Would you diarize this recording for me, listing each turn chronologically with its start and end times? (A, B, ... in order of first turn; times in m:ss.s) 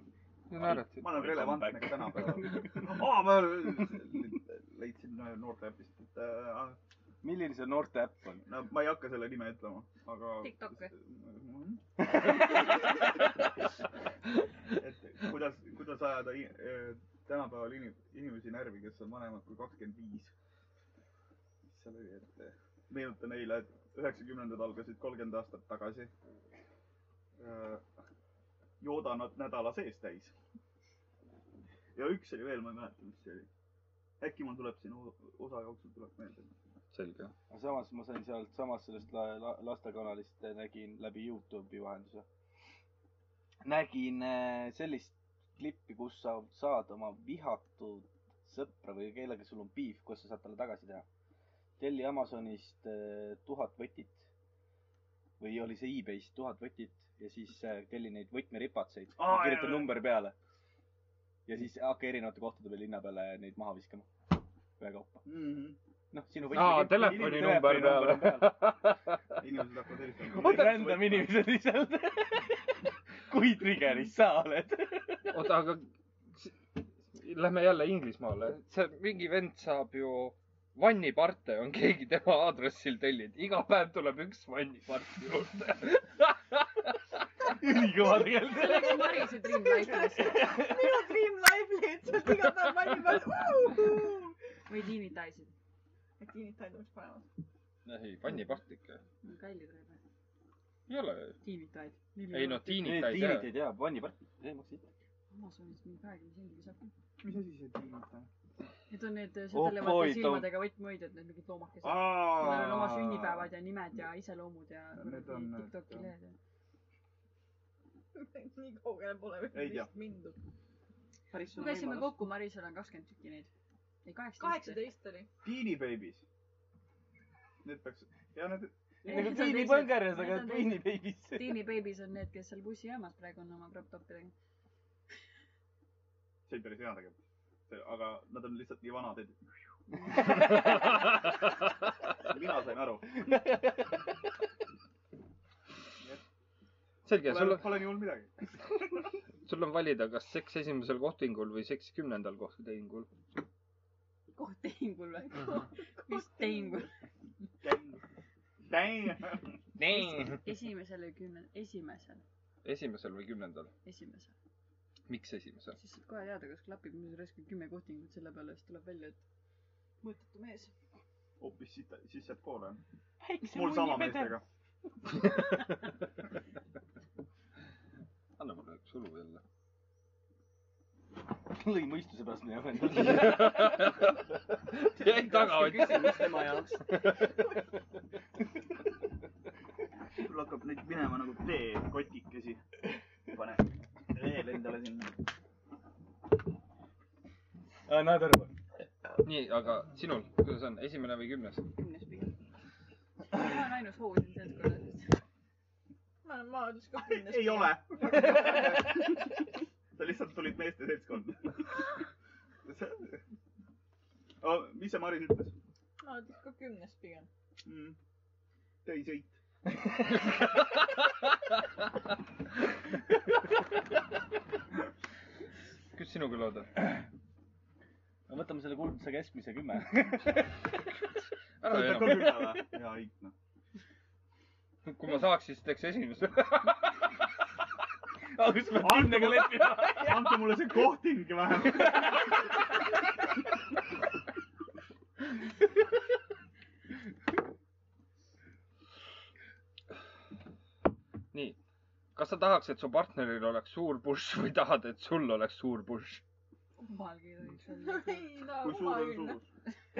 0:00.5-0:01.5 A
0:00.6-0:06.8 B
0:01.0-0:02.6 C
0:07.2-0:08.4 C
0:08.4-0:12.0 B
0:10.4-0:10.9 D
0:14.7-0:20.3 B
0:21.7-0:26.1 B
0:27.4-0:27.8 B
0:28.8-0:30.3 B
0:31.9-0:33.5 B
0:34.2-0:36.5 B
0:36.9-0:37.3 A
0:37.5-0:42.2 C
0:43.6-0:51.0 C
0:51.8-0:54.3 C
0:55.4-1:00.3 C
0:59.2-1:00.0 B
1:01.4-1:04.1 C
1:04.8-1:05.2 C
1:05.2-1:05.8 B
1:06.1-1:08.6 C
1:06.5-1:07.8 B
1:06.5-1:09.2 A
1:09.4-1:11.3 B
1:10.3-1:15.5 C
1:15.3-1:26.9 A
1:27.5-1:29.3 C
1:28.4-1:30.5 D
1:30.1-1:31.0 C
1:30.2-1:34.3 E
1:34.7-1:35.5 D
1:36.2-1:37.3 E
1:37.8-1:39.0 A
1:39.2-1:40.0 D
1:40.9-1:41.4 A
1:41.4-1:42.9 D
1:42.3-1:43.5 A
1:42.8-1:44.9 C
1:45.3-1:46.9 D
1:47.2-1:48.3 B
1:48.9-1:56.4 D
1:49.5-1:50.6 C
1:51.8-1:53.5 B
1:55.0-1:56.1 B
1:58.1-2:00.4 E
1:59.5-1:59.9 B
2:01.3-2:02.2 F
2:01.5-2:03.5 D
2:04.0-2:04.8 D
2:04.4-2:05.3 E
2:05.4-2:06.2 B
2:07.6-2:08.7 B
2:09.0-2:11.6 C
2:09.0-2:14.3 D
2:16.5-2:19.4 B
2:20.3-2:21.3 A
2:22.2-2:23.1 B
2:23.3-2:23.7 C
2:27.0-2:28.0 A
2:27.2-2:28.4 B
2:29.4-2:33.1 A
2:34.3-2:36.9 D
2:35.4-2:36.8 E
2:37.6-2:38.0 B
2:38.7-2:39.6 B
2:39.8-2:40.4 A
2:39.9-2:42.2 D
2:42.6-2:43.7 A
2:43.8-2:44.3 D
2:45.1-2:45.8 A
2:45.7-2:49.2 D
2:50.0-2:50.7 D
2:51.4-2:52.8 B
2:53.2-2:54.4 F
2:53.4-2:54.4 B
2:58.4-2:59.4 A
3:01.4-3:03.7 C
3:03.0-3:06.4 A
3:04.9-3:06.8 F
3:06.9-3:07.3 A
3:10.2-3:12.6 B
3:13.3-3:15.2 B
3:17.9-3:18.5 C
3:19.2-3:21.7 A
3:21.7-3:22.3 F
3:23.3-3:25.2 D
3:26.2-3:27.8 E
3:27.1-3:29.0 B
3:29.9-3:31.9 B
3:32.6-3:33.2 B
3:34.4-3:35.5 B
3:36.0-3:37.3 E
3:37.6-3:38.0 B
3:38.8-3:39.3 B
3:45.9-3:46.7 A
3:48.3-3:50.7 C
3:51.6-3:52.6 A
3:51.6-3:53.3 B
3:54.8-3:56.9 A
3:58.3-4:00.5 C
3:58.8-4:02.3 B
4:11.3-4:11.6 A
4:12.1-4:16.2 A
4:16.8-4:18.4 D
4:17.7-4:19.4 E
4:18.6-4:19.4 B